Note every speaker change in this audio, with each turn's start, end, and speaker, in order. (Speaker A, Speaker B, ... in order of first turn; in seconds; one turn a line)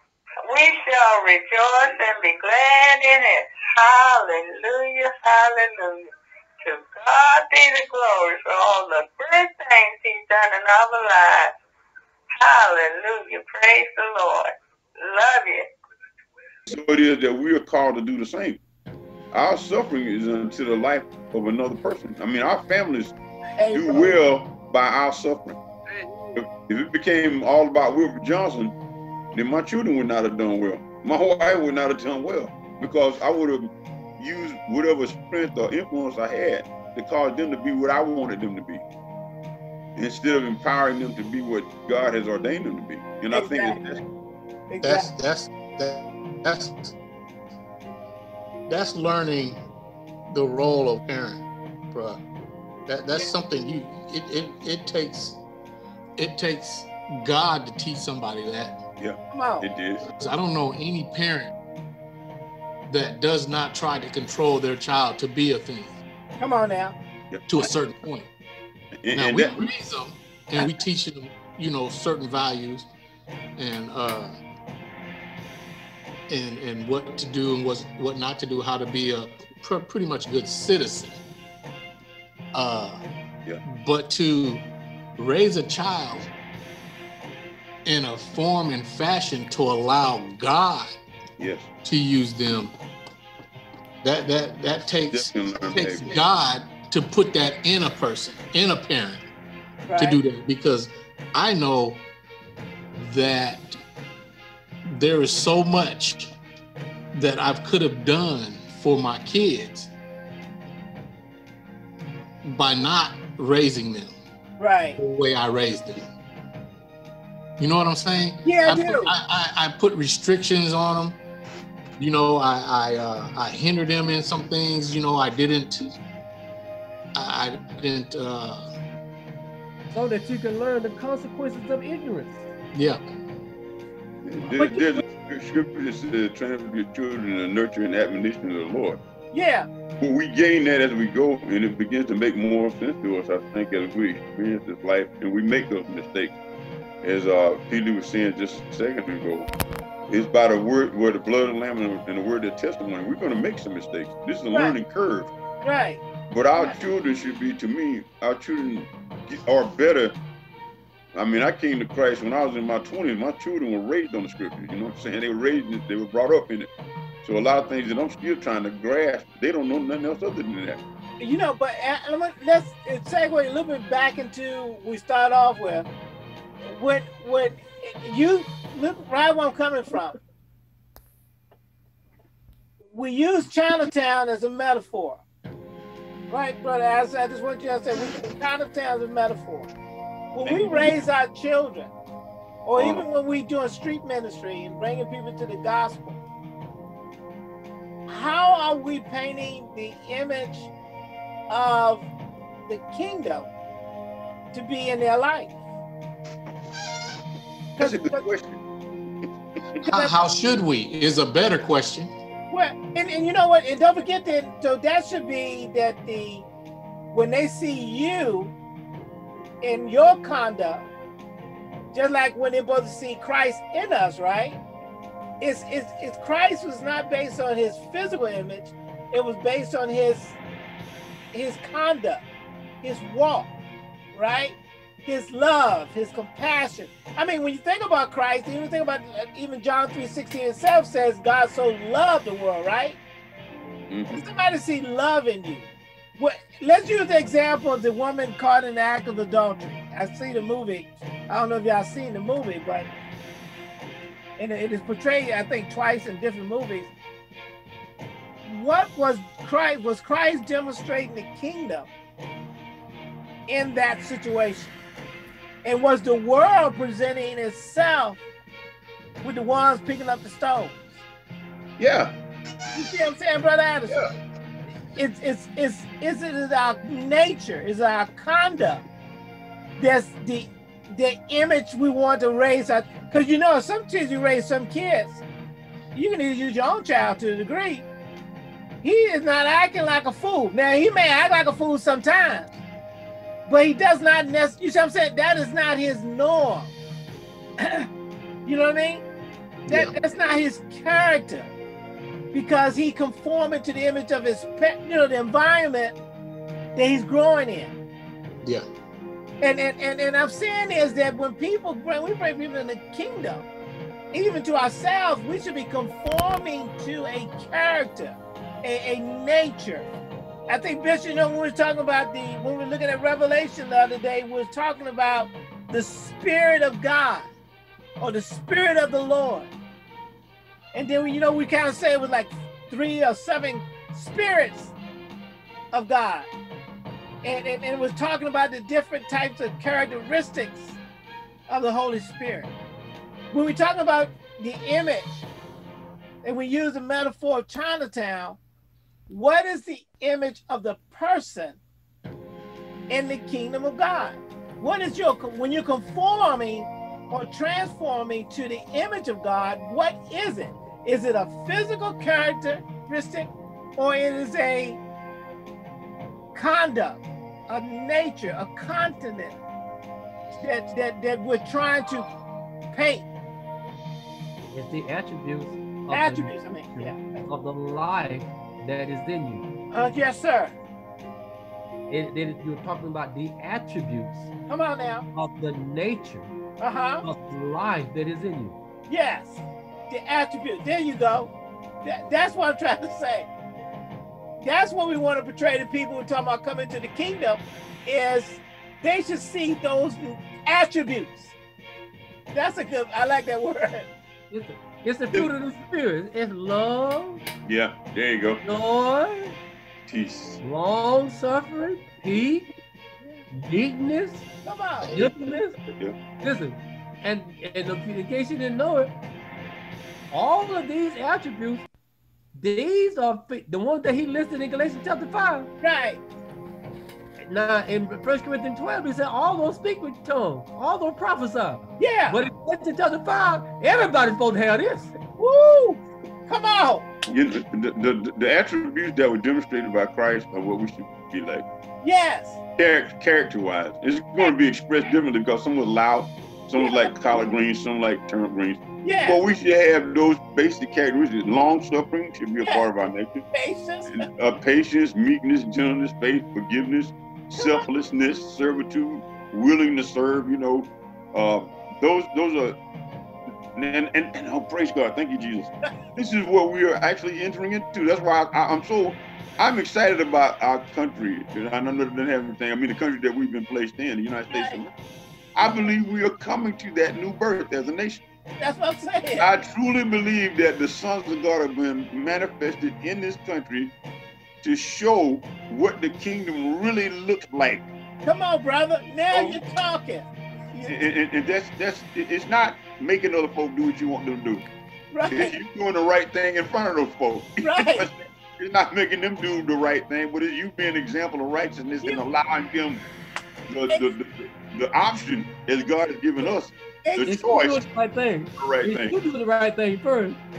Speaker A: 0.4-6.1
Speaker A: 6.6-11.5
Speaker A: 12.4-15.7
Speaker B: 16.7-18.6
Speaker B: 19.3-23.1
Speaker C: 23.6-24.2
Speaker B: 23.7-25.6
Speaker B: 26.3-28.7
Speaker B: 29.3-38.8
Speaker B: 40.0-44.0
Speaker C: 43.3-43.8
Speaker C: 44.7-45.1
Speaker D: 44.8-46.9
Speaker D: 48.7-49.6
Speaker D: 50.3-52.2
Speaker D: 52.9-55.4
Speaker D: 56.2-58.8
Speaker B: 59.0-60.0
Speaker C: 59.3-59.7
Speaker D: 60.1-61.5
Speaker D: 62.9-66.0
Speaker C: 66.4-67.0
Speaker B: 67.3-67.7
Speaker D: 67.5-68.3
Speaker B: 69.0-69.5
Speaker D: 69.1-72.9
Speaker D: 73.6-74.3
Speaker D: 76.3-81.2
Speaker D: 82.5-83.0
Speaker D: 83.6-86.3
Speaker D: 87.8-90.9
Speaker B: 91.4-91.7
Speaker D: 91.8-92.7
Speaker D: 94.0-99.3
Speaker B: 95.1-96.2
Speaker C: 99.8-100.2
Speaker D: 99.9-102.0
Speaker D: 103.0-103.8
Speaker D: 104.9-106.3
Speaker D: 107.1-109.9
Speaker D: 112.4-114.2
Speaker C: 114.6-115.0
Speaker D: 115.0-116.1
Speaker D: 117.6-121.2
Speaker C: 118.4-119.1
Speaker D: 122.0-126.0
Speaker D: 127.1-128.7
Speaker E: 129.9-132.5
Speaker D: 132.7-133.0
Speaker B: 134.2-139.0
Speaker C: 134.5-135.0
Speaker C: 139.3-139.7
Speaker B: 140.0-146.4
Speaker B: 147.0-149.5
Speaker B: 150.1-155.3
Speaker C: 154.5-154.8
Speaker C: 155.6-156.0
Speaker B: 156.3-160.2
Speaker B: 161.1-166.7
Speaker B: 167.2-170.8
Speaker C: 171.2-175.9
Speaker C: 176.6-180.1
Speaker C: 182.9-185.2
Speaker C: 186.3-189.7
Speaker C: 190.3-191.9
Speaker B: 190.4-190.9
Speaker C: 192.7-196.2
Speaker B: 192.8-193.0
Speaker C: 198.1-200.7
Speaker C: 201.5-202.1
Speaker C: 202.7-203.5
Speaker C: 204.5-205.6
Speaker B: 207.8-208.6
Speaker C: 207.8-208.2
Speaker C: 209.8-210.2
Speaker D: 209.9-212.1
Speaker C: 212.5-216.5
Speaker C: 217.1-218.5
Speaker C: 219.6-220.9
Speaker C: 221.9-224.6
Speaker C: 225.4-230.4
Speaker C: 231.3-232.2
Speaker C: 232.8-233.5
Speaker C: 234.1-243.0
Speaker B: 243.9-244.2
Speaker C: 244.1-252.9
Speaker C: 254.4-256.9
Speaker C: 258.4-261.9
Speaker C: 263.5-264.8
Speaker C: 265.6-268.2
Speaker C: 269.2-270.8
Speaker B: 271.8-272.1
Speaker C: 272.7-273.9
Speaker C: 274.9-278.8
Speaker C: 279.8-285.2
Speaker C: 285.9-287.9
Speaker C: 288.8-292.5
Speaker C: 293.5-296.7
Speaker C: 297.6-297.9
Speaker C: 298.4-299.0
Speaker D: 299.7-299.9
Speaker C: 299.7-301.5
Speaker C: 302.3-306.0
Speaker C: 306.7-307.7
Speaker C: 309.4-313.5
Speaker C: 314.1-319.9
Speaker C: 320.5-327.3
Speaker C: 328.0-329.5
Speaker C: 330.7-334.7
Speaker C: 335.7-336.3
Speaker C: 337.2-340.8
Speaker C: 341.5-342.5
Speaker C: 343.3-345.2
Speaker C: 346.2-348.4
Speaker C: 349.1-351.6
Speaker C: 352.9-364.8
Speaker C: 366.3-369.4
Speaker C: 370.4-372.1
Speaker C: 372.7-373.1
Speaker E: 374.5-379.4
Speaker C: 375.9-377.2
Speaker C: 379.7-380.5
Speaker E: 381.9-384.3
Speaker C: 384.5-385.1
Speaker E: 385.1-386.4
Speaker C: 386.6-387.0
Speaker E: 387.0-388.6
Speaker C: 388.9-391.3
Speaker C: 391.8-393.3
Speaker C: 394.4-401.3
Speaker C: 402.3-403.9
Speaker E: 404.3-407.2
Speaker B: 407.4-408.4
Speaker E: 408.4-409.4
Speaker B: 409.9-410.4
Speaker E: 410.4-412.5
Speaker E: 413.3-414.2
Speaker C: 414.4-415.0
Speaker E: 414.9-415.6
Speaker E: 416.2-418.9
Speaker E: 420.1-421.7
Speaker E: 422.3-425.5
Speaker C: 425.6-426.0
Speaker E: 427.2-434.9
Speaker C: 431.8-432.2
Speaker C: 435.2-436.9
Speaker B: 437.1-441.4
Speaker C: 441.8-442.4
Speaker B: 442.6-453.2
Speaker C: 446.6-446.9
Speaker C: 448.8-449.2
Speaker C: 452.4-452.7
Speaker C: 453.3-454.0
Speaker B: 453.9-462.6
Speaker C: 457.4-457.7
Speaker B: 463.5-474.7
Speaker C: 474.3-474.6
Speaker B: 475.3-478.0
Speaker C: 478.4-479.3
Speaker B: 479.2-483.7
Speaker B: 484.4-487.7
Speaker C: 488.0-490.7
Speaker B: 489.1-489.4
Speaker B: 490.7-494.4
Speaker C: 494.9-495.3
Speaker B: 495.1-502.8
Speaker C: 497.4-497.9
Speaker B: 503.5-507.6
Speaker C: 506.8-507.2
Speaker E: 507.0-510.2
Speaker B: 508.4-508.9